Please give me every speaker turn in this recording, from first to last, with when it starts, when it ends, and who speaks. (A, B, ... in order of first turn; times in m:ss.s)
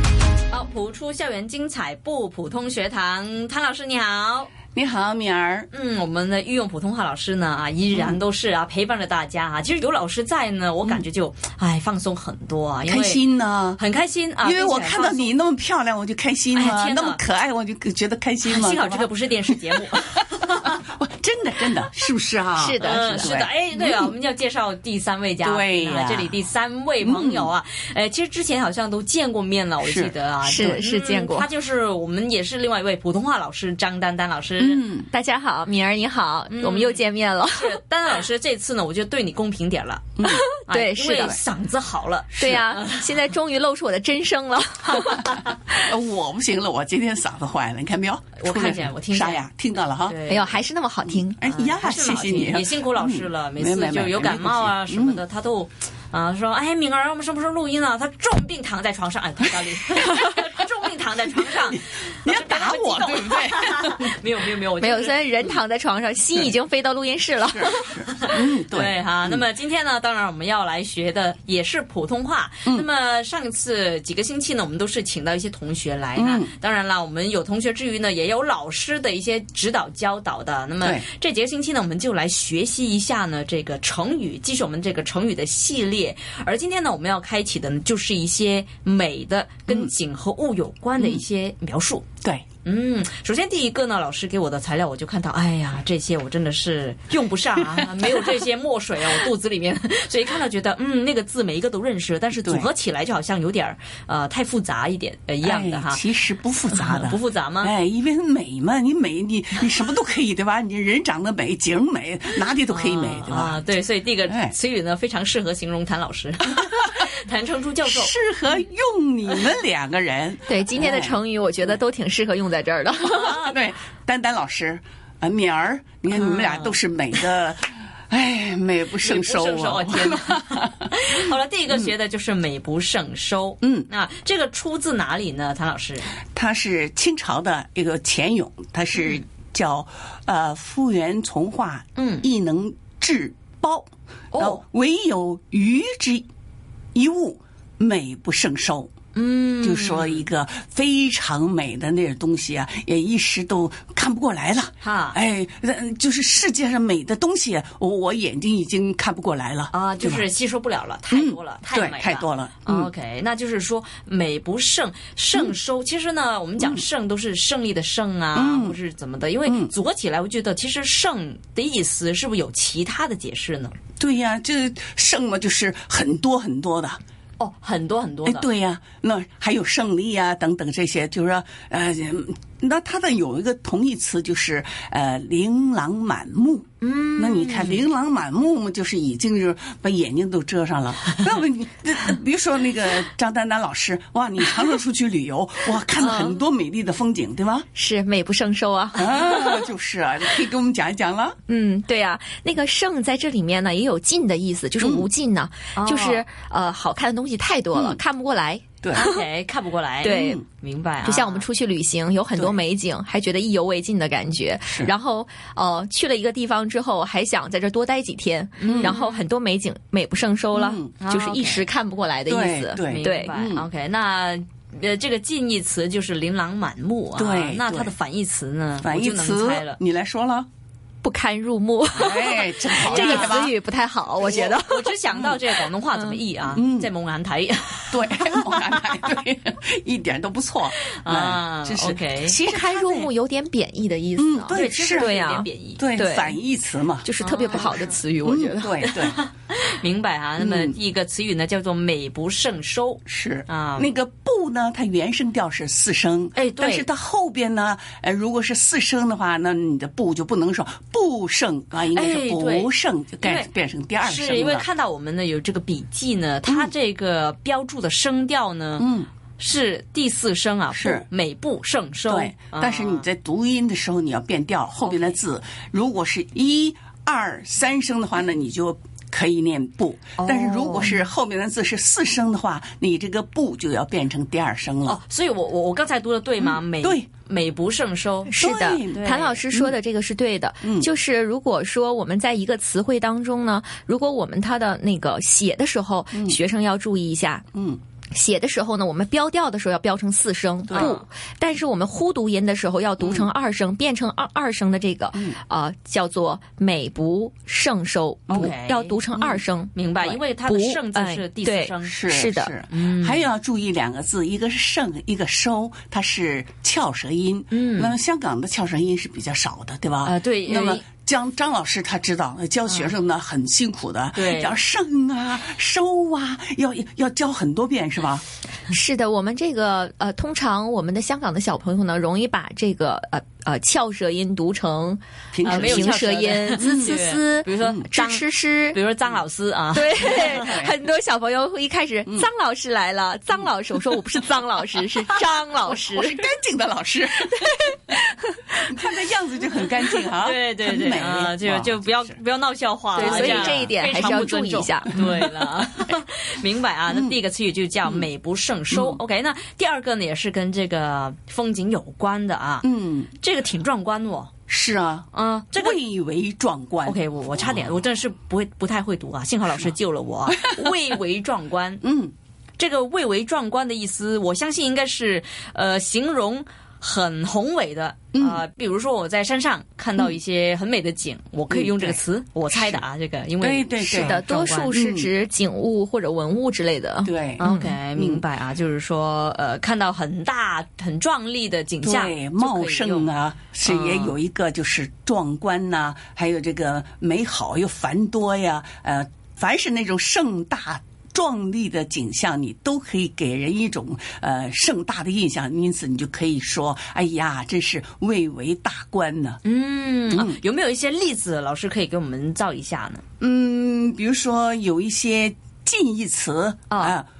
0:00.5-0:04.5 A
0:04.7-0:05.7 B
0:05.7-0:13.2 A
0:07.9-0:08.2 B
0:12.8-0:13.8 B
0:13.8-0:15.3 A
0:14.4-0:24.1 B
0:16.5-0:17.2 A
0:18.4-0:20.8 A
0:22.6-0:23.3 C
0:22.8-0:34.8 A
0:25.4-0:26.4 B
0:27.0-0:27.5 B
0:29.8-0:30.1 B
0:30.4-0:31.5 C
0:34.6-0:35.1 B
0:35.1-0:37.8 C
0:36.5-0:40.1 A
0:40.2-0:40.5 B
0:40.2-0:41.4 C
0:40.6-0:43.2 A
0:42.4-0:42.6 B
0:42.4-0:45.8 C
0:44.9-0:45.5 A
0:45.8-0:50.2 B
0:48.4-0:49.4 A
0:50.1-0:50.6 A
0:50.3-0:51.5 C
0:51.1-0:55.2 B
0:51.4-1:05.6 A
1:01.4-1:04.2 B
1:04.8-1:07.9 C
1:07.5-1:09.4 B
1:08.1-1:32.0 A
1:16.2-1:16.5 B
1:31.0-1:31.2 B
1:32.6-1:46.0 A
1:37.8-1:38.3 B
1:42.4-1:42.7 B
1:45.4-1:53.6 B
1:46.7-1:47.7 A
1:52.7-1:58.1 A
1:54.3-1:54.5 B
1:57.8-2:01.2 B
2:00.5-2:03.5 C
2:03.0-2:03.5 A
2:03.4-2:10.9 B
2:06.1-2:06.7 A
2:09.0-2:16.1 A
2:13.6-2:13.9 B
2:16.3-2:26.3 B
2:22.0-2:22.3 A
2:24.3-2:24.6 A
2:26.9-2:28.9 B
2:29.1-2:30.2 A
2:29.6-2:40.3 B
2:34.8-2:35.2 A
2:39.7-2:53.7 A
2:41.1-2:42.9 B
2:48.3-2:48.8 B
2:49.4-2:49.7 B
2:54.0-2:57.0 B
2:57.4-2:58.4 A
2:58.2-3:17.6 B
3:06.8-3:07.8 A
3:16.0-3:16.4 C
3:17.7-3:19.7 C
3:18.9-3:21.4 B
3:21.5-3:29.2 C
3:24.8-3:25.1 B
3:25.7-3:26.2 A
3:27.7-3:28.0 B
3:28.9-3:31.4 A
3:30.0-3:30.4 C
3:30.0-3:30.4 B
3:31.0-3:43.3 C
3:38.6-3:39.2 A
3:38.6-3:39.0 B
3:40.5-3:41.0 B
3:41.0-3:41.7 A
3:42.3-3:43.6 B
3:42.8-3:49.8 A
3:47.2-3:47.9 B
3:48.8-3:50.5 B
3:51.0-3:55.0 C
3:51.9-3:53.6 B
3:52.7-3:53.5 A
3:54.2-3:54.5 B
3:54.2-3:58.2 A
3:55.1-3:55.4 B
3:55.7-3:56.2 C
3:56.5-3:56.9 B
3:57.9-4:03.1 B
4:00.9-4:02.4 A
4:02.4-4:06.4 C
4:04.2-4:05.2 B
4:04.5-4:05.8 A
4:05.8-4:09.2 B
4:07.0-4:08.9 C
4:07.2-4:08.0 A
4:08.9-4:13.9 A
4:10.4-4:10.8 B
4:13.0-4:24.7 B
4:16.3-4:16.9 A
4:21.9-4:22.7 A
4:23.2-4:23.5 A
4:24.0-4:33.0 A
4:26.4-4:26.7 B
4:28.8-4:29.1 B
4:30.7-4:31.1 B
4:32.1-4:45.0 B
4:34.8-4:35.2 A
4:40.2-4:41.0 A
4:44.8-4:49.4 A
4:46.4-4:47.1 B
4:48.2-4:57.4 C
4:48.3-4:49.8 B
4:50.6-4:50.9 B
4:56.1-4:56.4 B
4:57.5-4:57.8 B
4:58.1-5:12.5 C
5:00.7-5:01.0 B
5:00.7-5:01.0 A
5:03.0-5:03.3 B
5:08.3-5:09.0 A
5:09.2-5:09.4 B
5:09.7-5:12.0 A
5:11.8-5:28.2 B
5:12.7-5:13.3 A
5:17.5-5:17.9 A
5:20.0-5:20.8 A
5:22.6-5:22.9 A
5:24.1-5:24.6 A
5:28.7-5:38.8 C
5:35.3-5:37.0 B
5:35.4-5:40.6 A
5:39.7-5:46.3 C
5:40.3-5:40.7 B
5:45.6-5:47.7 B
5:47.3-5:48.9 C
5:48.7-5:52.2 B
5:50.2-6:04.3 A
5:52.9-5:55.0 C
5:52.9-5:55.9 B
5:56.9-5:57.1 B
5:58.7-5:59.0 B
6:02.6-6:03.1 B
6:04.5-6:07.0 B
6:05.1-6:05.8 A
6:06.8-6:11.8 A
6:10.3-6:10.7 B
6:11.8-6:12.1 B
6:12.6-6:24.8 A
6:18.1-6:18.4 B
6:21.5-6:22.0 B
6:22.5-6:22.8 B
6:23.4-6:25.1 B
6:23.8-6:27.8 C
6:27.0-6:28.2 B
6:27.4-6:33.1 A
6:31.8-6:49.4 B
6:33.6-6:34.2 A
6:49.4-6:53.0 A
6:50.1-6:50.4 B
6:53.2-6:57.0 B
6:56.7-6:57.0 A